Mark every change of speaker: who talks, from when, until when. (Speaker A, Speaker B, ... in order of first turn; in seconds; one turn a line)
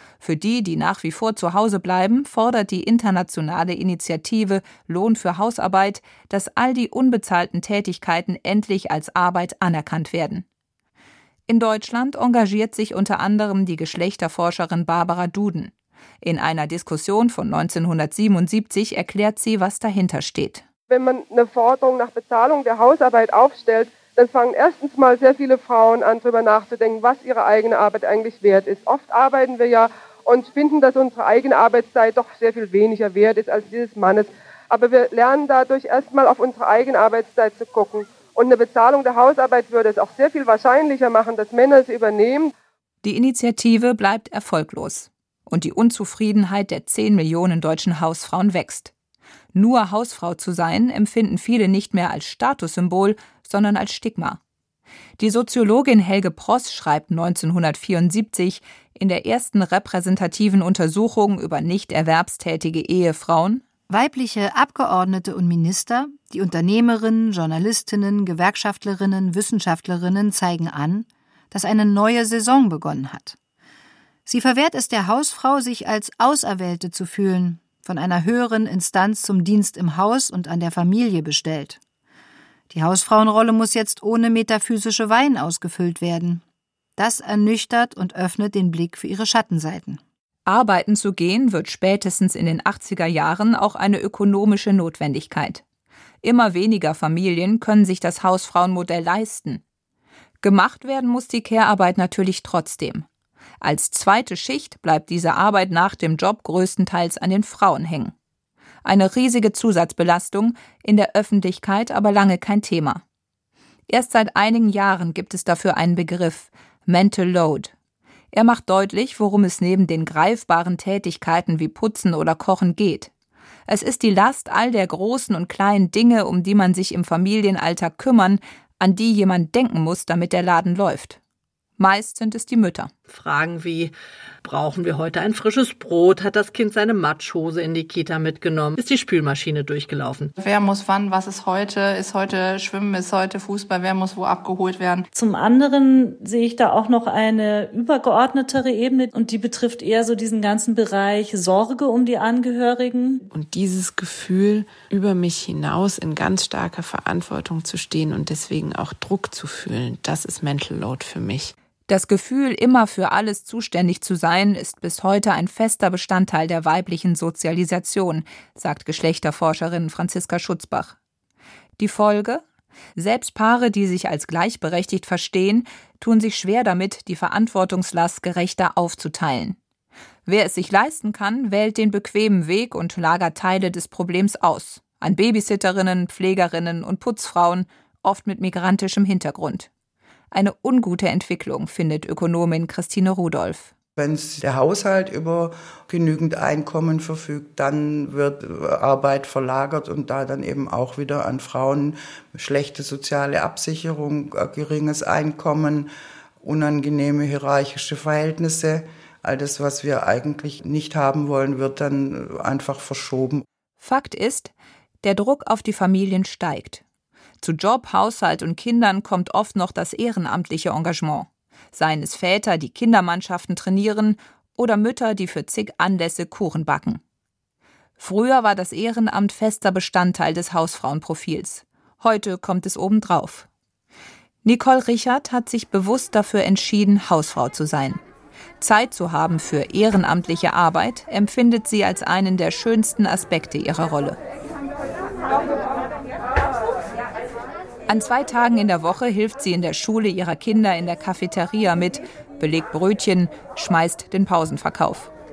Speaker A: 0.2-10.4
Speaker A: 11.5-20.6
Speaker B: 20.9-42.5
Speaker A: 43.0-48.9
Speaker A: 49.5-54.4
Speaker A: 55.2-63.6
Speaker C: 63.9-73.3
Speaker C: 74.2-81.8
Speaker C: 82.7-86.4
Speaker C: 87.0-90.0
Speaker A: 90.5-95.6
Speaker A: 96.2-99.6
Speaker A: 100.4-103.0
Speaker A: 103.6-108.1
Speaker A: 108.8-113.0
Speaker A: 113.9-117.7
Speaker A: 118.3-123.1
Speaker A: 123.7-131.2
Speaker A: 131.8-132.9
Speaker D: 133.1-133.9
Speaker D: 134.4-140.3
Speaker E: 140.3-145.1
Speaker F: 145.1-153.2
Speaker G: 153.2-161.5
Speaker A: 161.9-170.9
Speaker A: 171.8-172.4
Speaker A: 172.9-179.6
Speaker A: 180.2-189.7
Speaker A: 190.3-193.7
Speaker H: 194.0-213.4
Speaker A: 213.8-216.8
Speaker A: 217.4-227.0
Speaker A: 228.0-233.5
Speaker A: 234.4-238.0
Speaker A: 238.6-244.2
Speaker A: 247.9-255.1